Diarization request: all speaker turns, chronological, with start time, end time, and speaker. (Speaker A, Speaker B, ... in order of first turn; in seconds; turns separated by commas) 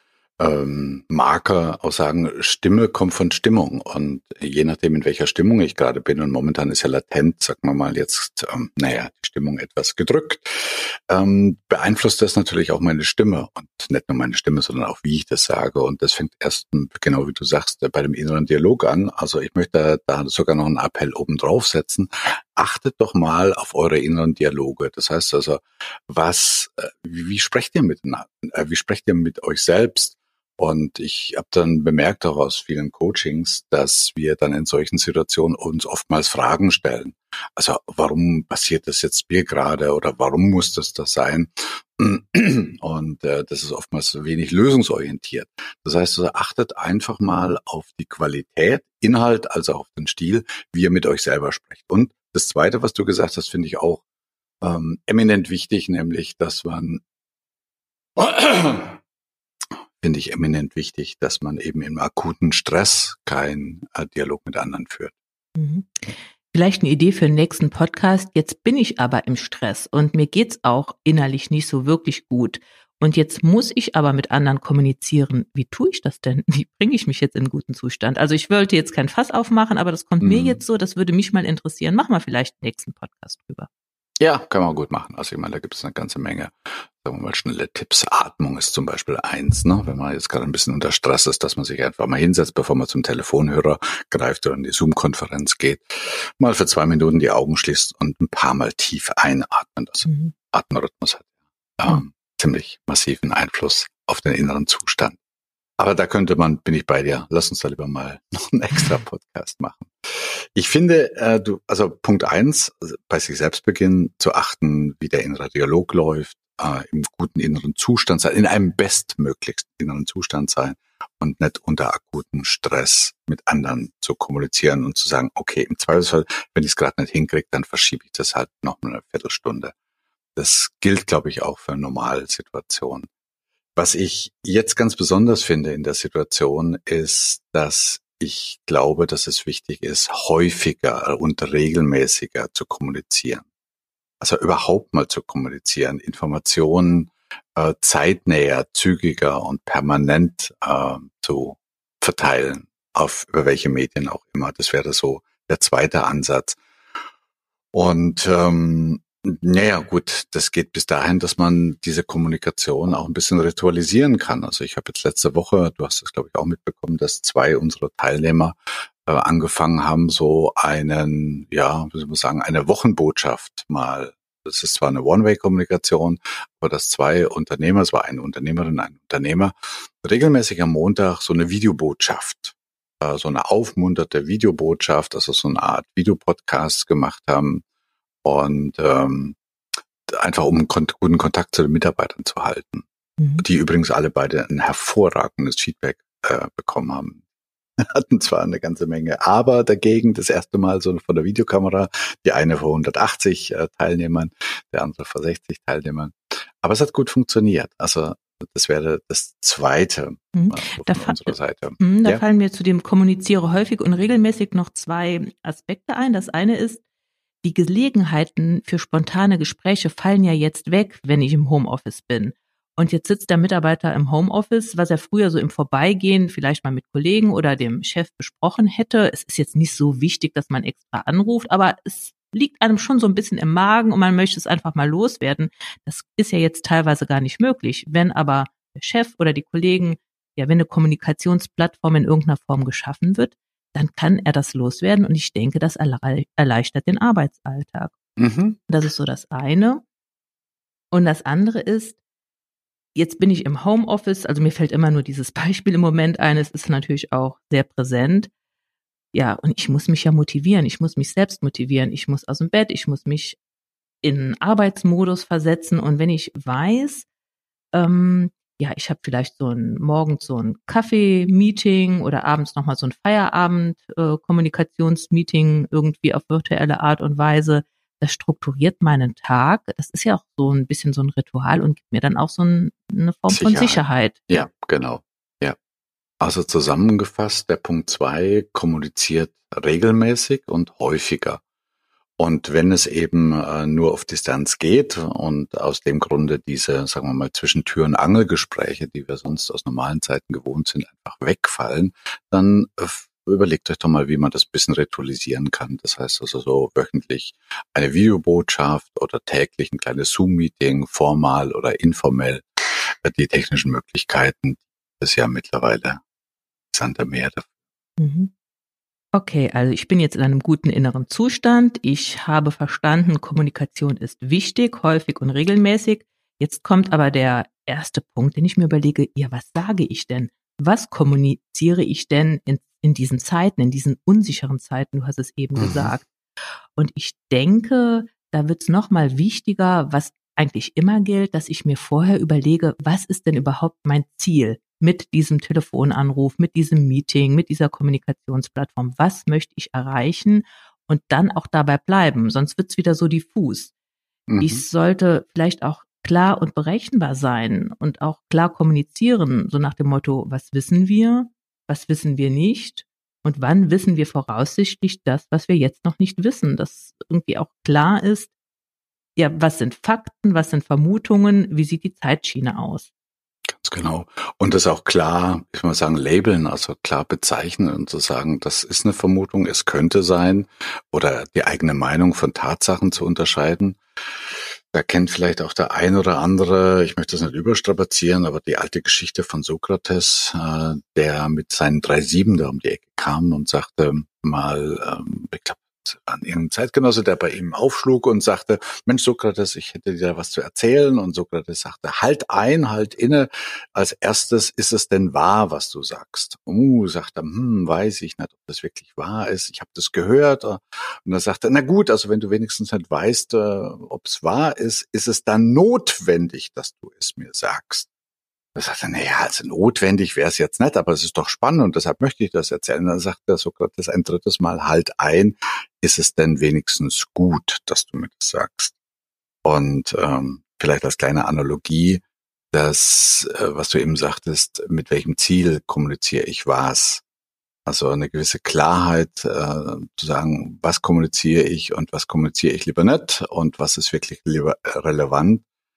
Speaker A: 0.4-54.0, Speaker A: 54.6-57.0, Speaker A: 58.1-59.0, Speaker A: 60.0-65.1, Speaker B: 65.6-83.7, Speaker A: 80.2-80.6, Speaker A: 84.2-101.3, Speaker B: 100.0-100.3, Speaker A: 101.8-105.2, Speaker A: 105.8-129.7, Speaker A: 130.3-133.1, Speaker A: 133.8-143.4, Speaker A: 144.2-156.6, Speaker A: 157.7-187.6, Speaker A: 188.2-189.4, Speaker A: 190.1-192.8, Speaker B: 193.2-193.4, Speaker A: 193.4-197.2, Speaker A: 197.8-212.2, Speaker B: 210.3-216.8, Speaker B: 217.4-247.9, Speaker A: 248.2-248.6, Speaker B: 248.7-249.8, Speaker B: 250.9-252.0, Speaker B: 252.9-258.3, Speaker B: 259.1-263.4, Speaker B: 264.0-267.1, Speaker B: 267.7-284.2, Speaker A: 283.3-285.6, Speaker A: 286.2-291.4, Speaker A: 292.2-316.0, Speaker A: 316.7-317.4, Speaker B: 318.0-318.3, Speaker B: 319.1-336.1, Speaker A: 335.6-335.9, Speaker B: 336.8-353.7, Speaker A: 354.3-354.6, Speaker B: 354.4-368.3, Speaker B: 369.1-372.9, Speaker A: 373.5-417.9, Speaker A: 418.5-428.7, Speaker A: 429.4-437.0, Speaker A: 437.6-445.4